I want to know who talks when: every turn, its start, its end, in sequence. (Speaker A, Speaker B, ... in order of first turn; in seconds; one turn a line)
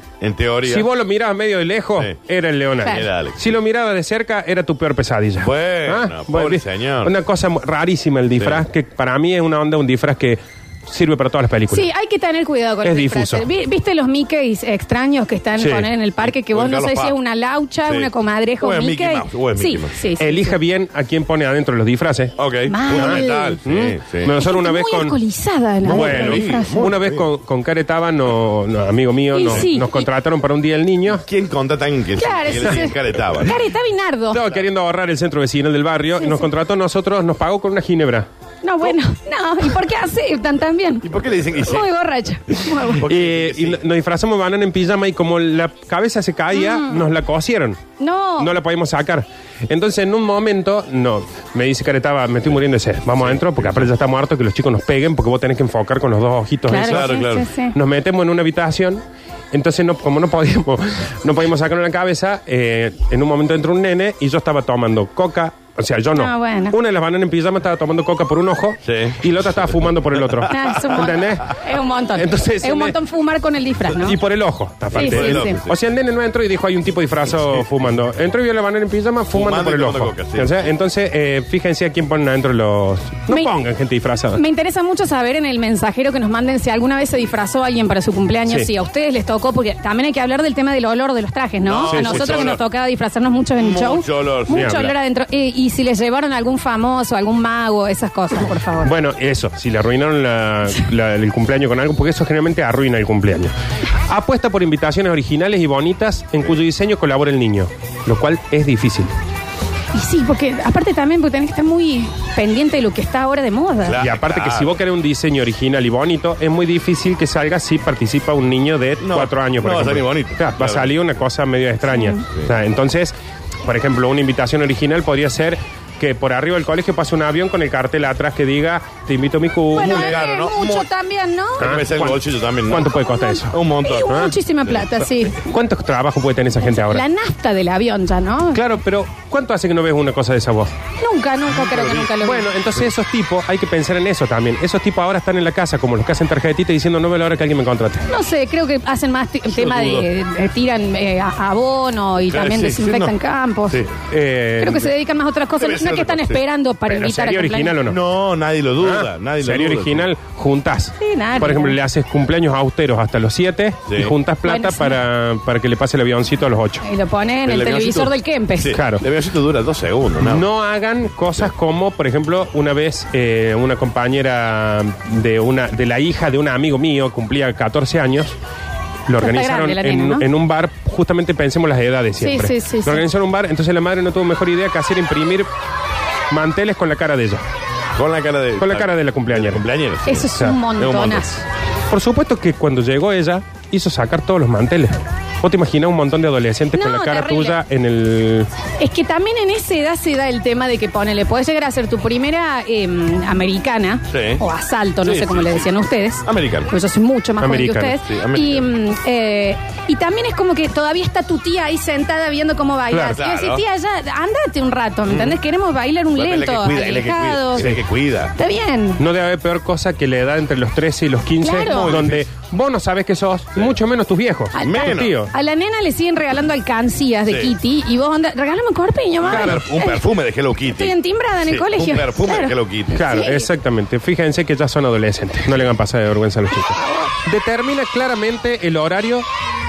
Speaker A: 0.2-0.9
Speaker B: 0.7-11.9
Speaker C: 2.8-3.1
Speaker A: 2.9-3.5
Speaker A: 5.4-7.1
Speaker A: 8.4-8.6
Speaker C: 11.7-20.5
Speaker B: 12.8-13.4
Speaker B: 15.6-15.9
Speaker A: 16.2-17.2
Speaker A: 17.8-19.9
Speaker B: 20.2-25.2
Speaker A: 22.4-24.3
Speaker C: 22.7-23.6
Speaker C: 24.3-26.9
Speaker A: 25.8-27.2
Speaker B: 25.8-31.2
Speaker C: 29.3-30.1
Speaker A: 31.1-33.6
Speaker C: 32.1-34.4
Speaker B: 34.3-38.3
Speaker C: 36.2-36.5
Speaker C: 38.6-41.1
Speaker A: 41.0-41.9
Speaker C: 41.6-43.1
Speaker A: 43.0-43.8
Speaker B: 43.0-47.8
Speaker C: 46.5-47.1
Speaker C: 48.0-48.5
Speaker B: 48.4-57.2
Speaker A: 53.2-53.9
Speaker C: 56.7-57.7
Speaker A: 56.9-57.5
Speaker B: 57.7-71.6
Speaker C: 66.1-66.8
Speaker A: 68.8-69.7
Speaker A: 70.2-70.8
Speaker C: 70.5-74.2
Speaker B: 72.2-72.9
Speaker B: 74.0-84.4
Speaker C: 74.9-75.6
Speaker A: 74.9-75.8
Speaker A: 79.3-80.7
Speaker C: 83.3-83.5
Speaker C: 84.3-98.9
Speaker A: 91.6-92.6
Speaker B: 91.9-92.5
Speaker A: 93.6-94.6
Speaker B: 94.5-94.9
Speaker B: 98.8-103.5
Speaker B: 104.1-109.1
Speaker C: 109.9-114.0
Speaker A: 113.8-114.7
Speaker B: 114.0-130.2
Speaker A: 119.0-120.9
Speaker C: 129.7-131.8
Speaker A: 129.8-130.9
Speaker B: 131.6-134.3
Speaker A: 131.6-132.9
Speaker C: 133.1-135.5
Speaker A: 133.5-135.0
Speaker B: 135.4-137.0
Speaker C: 136.6-138.6
Speaker B: 138.5-140.7
Speaker C: 141.0-142.5
Speaker A: 141.5-142.1
Speaker B: 142.2-148.1
Speaker C: 148.1-153.8
Speaker A: 149.5-150.1
Speaker A: 152.2-153.2
Speaker B: 154.1-154.9
Speaker C: 154.6-157.8
Speaker A: 155.6-156.4
Speaker B: 156.9-158.0
Speaker A: 157.8-160.1
Speaker B: 158.8-166.8
Speaker C: 161.0-161.8
Speaker A: 163.9-164.1
Speaker C: 164.4-165.0
Speaker C: 166.8-168.8
Speaker A: 167.4-170.4
Speaker B: 168.7-169.0
Speaker B: 170.2-178.3
Speaker B: 179.1-185.5
Speaker C: 179.2-180.2
Speaker C: 182.2-183.0
Speaker B: 186.3-187.4
Speaker A: 187.9-191.2
Speaker B: 188.6-189.6
Speaker C: 190.1-191.4
Speaker B: 191.9-198.5
Speaker C: 196.7-197.6
Speaker C: 198.8-217.7
Speaker A: 204.1-204.4
Speaker A: 205.0-205.7
Speaker A: 206.2-206.7
Speaker B: 207.4-207.9
Speaker A: 208.0-208.7
Speaker B: 212.9-213.2
Speaker A: 213.1-213.6
Speaker A: 215.1-215.4
Speaker A: 216.1-218.3
Speaker C: 218.3-219.0
Speaker B: 219.0-225.3
Speaker C: 221.4-222.0
Speaker A: 221.7-222.2
Speaker C: 224.5-230.0
Speaker A: 224.6-225.2
Speaker A: 227.3-227.5
Speaker A: 229.2-233.1
Speaker B: 229.2-229.6
Speaker C: 230.7-232.5
Speaker B: 232.9-236.7
Speaker C: 233.0-233.5
Speaker C: 236.7-237.1
Speaker B: 237.2-239.2